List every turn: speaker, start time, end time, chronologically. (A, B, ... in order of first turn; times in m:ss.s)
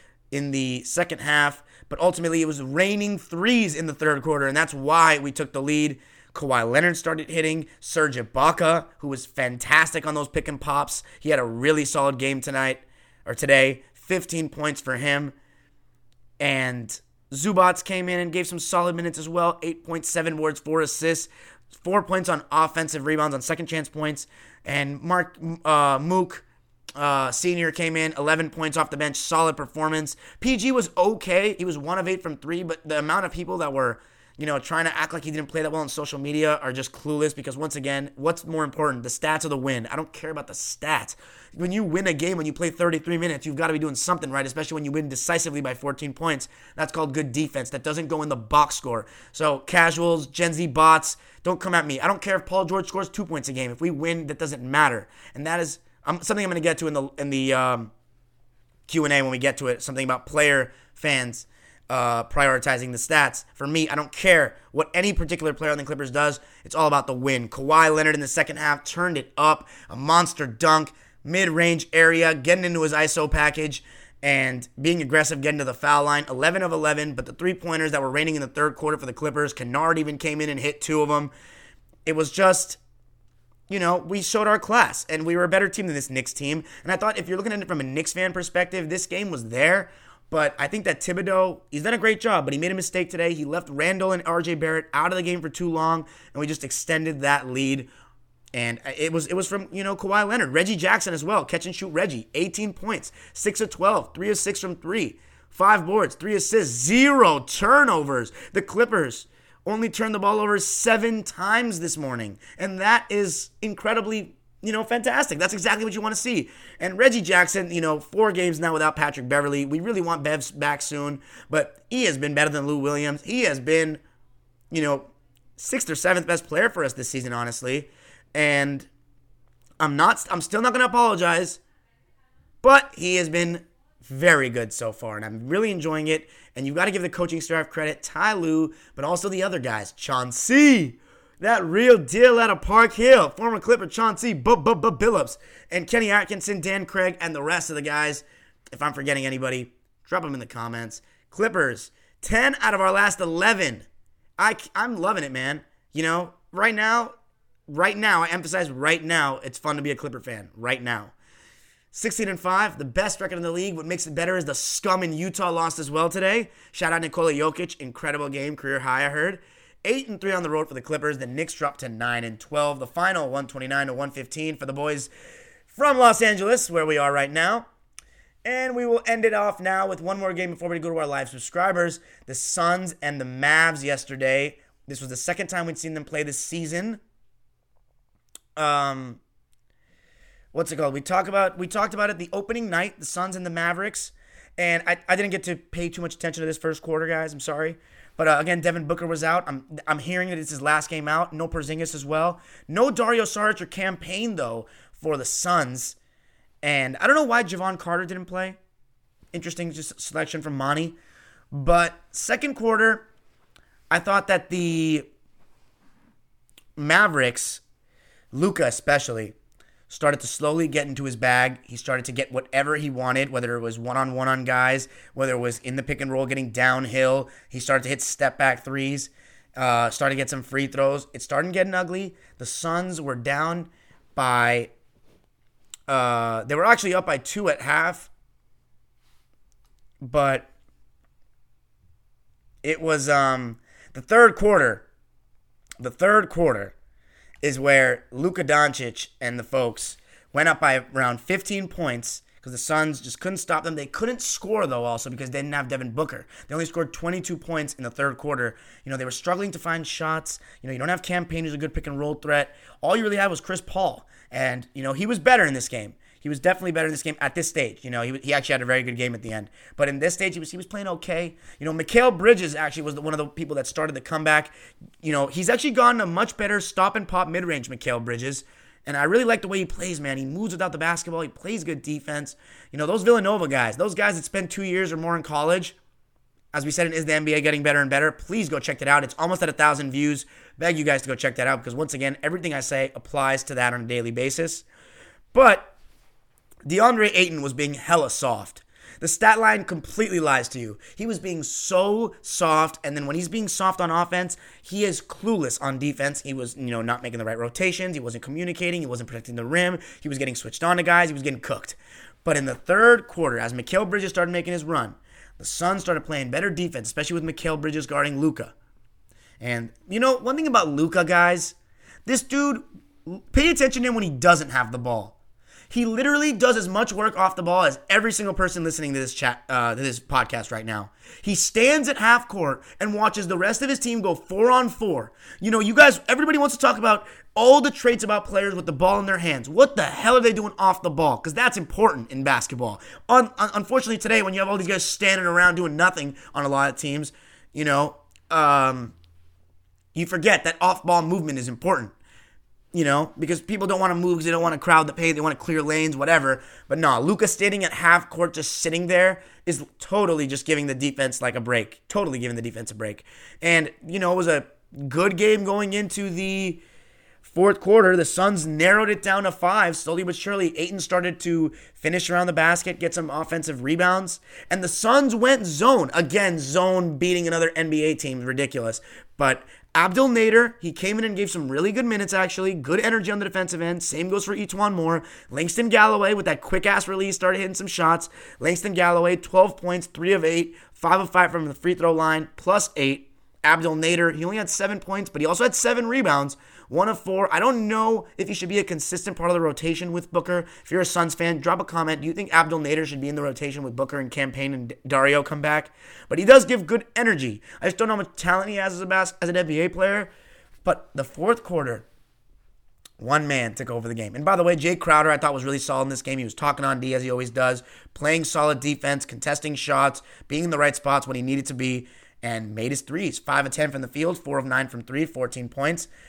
0:00.3-0:15.3 A
0:16.4-0:26.4 A
0:27.0-0:57.9 A
0:58.9-1:21.3 A
1:22.1-1:22.8 A
1:23.7-1:37.9 A
1:38.5-2:04.0 A
2:04.7-2:08.9 A
2:09.8-2:11.6 A
2:12.6-2:33.9 A
2:34.4-2:37.1 A
2:37.7-2:41.1 A
2:41.9-2:55.1 A
2:55.7-2:57.7 A
2:58.4-3:07.0 A
3:08.6-3:09.2 A
3:10.5-3:26.0 A
3:26.6-3:28.6 A
3:29.3-3:31.0 A
3:31.5-3:33.1 A
3:33.9-3:35.1 A
3:36.8-3:37.6 A
3:38.3-3:39.4 A
3:39.9-3:54.7 A
3:55.9-3:58.1 A
4:00.0-4:00.5 A
4:02.6-4:04.9 A
4:05.8-4:06.7 A
4:07.4-4:45.8 A
4:46.5-4:54.7 A
4:55.3-4:55.7 A
4:56.7-5:18.5 A
5:19.4-5:21.6 A
5:22.1-5:25.2 A
5:25.7-5:48.9 A
5:49.9-5:51.9 A
5:52.7-6:06.6 A
6:07.2-6:50.1 A
6:50.6-6:51.9 A
6:53.0-7:05.9 A